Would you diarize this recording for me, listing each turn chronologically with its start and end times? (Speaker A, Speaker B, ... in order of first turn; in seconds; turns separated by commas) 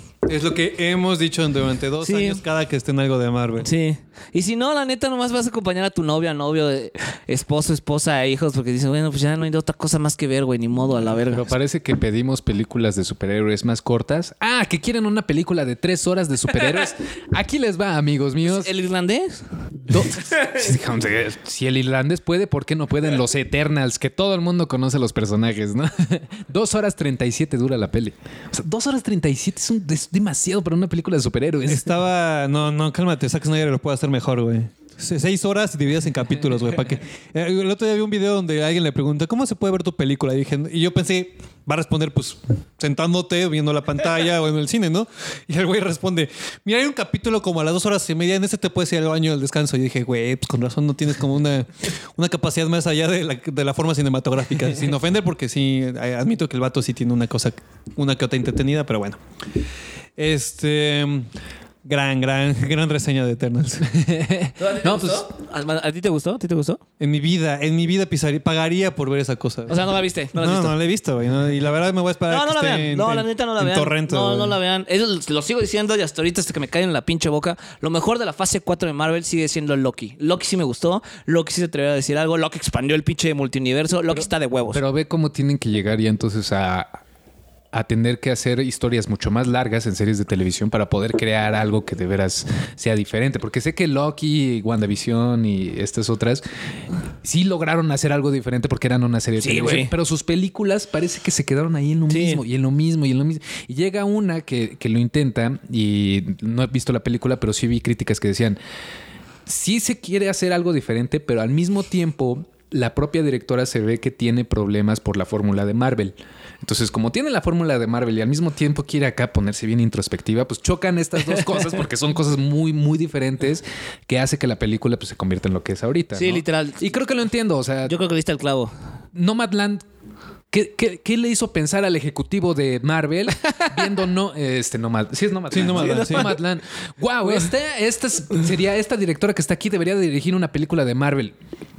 Speaker A: 0.3-3.7, Speaker B: 2.0-2.4, Speaker B: 3.6-11.5, Speaker C: 11.3-18.7, Speaker B: 18.4-20.6, Speaker C: 19.9-31.9, Speaker A: 31.7-59.2, Speaker A: 60.2-61.3, Speaker A: 61.9-63.9, Speaker C: 63.8-65.3, Speaker B: 64.6-66.8, Speaker A: 67.0-74.6, Speaker B: 69.7-70.8, Speaker B: 72.3-84.8, Speaker C: 84.7-87.0, Speaker C: 87.7-96.4, Speaker C: 97.2-108.6, Speaker B: 99.4-99.9, Speaker B: 102.1-102.4, Speaker C: 109.5-128.0, Speaker B: 126.2-126.8, Speaker B: 127.9-128.7, Speaker C: 129.1-129.8, Speaker C: 130.5-141.3, Speaker A: 135.5-136.3, Speaker B: 135.7-136.3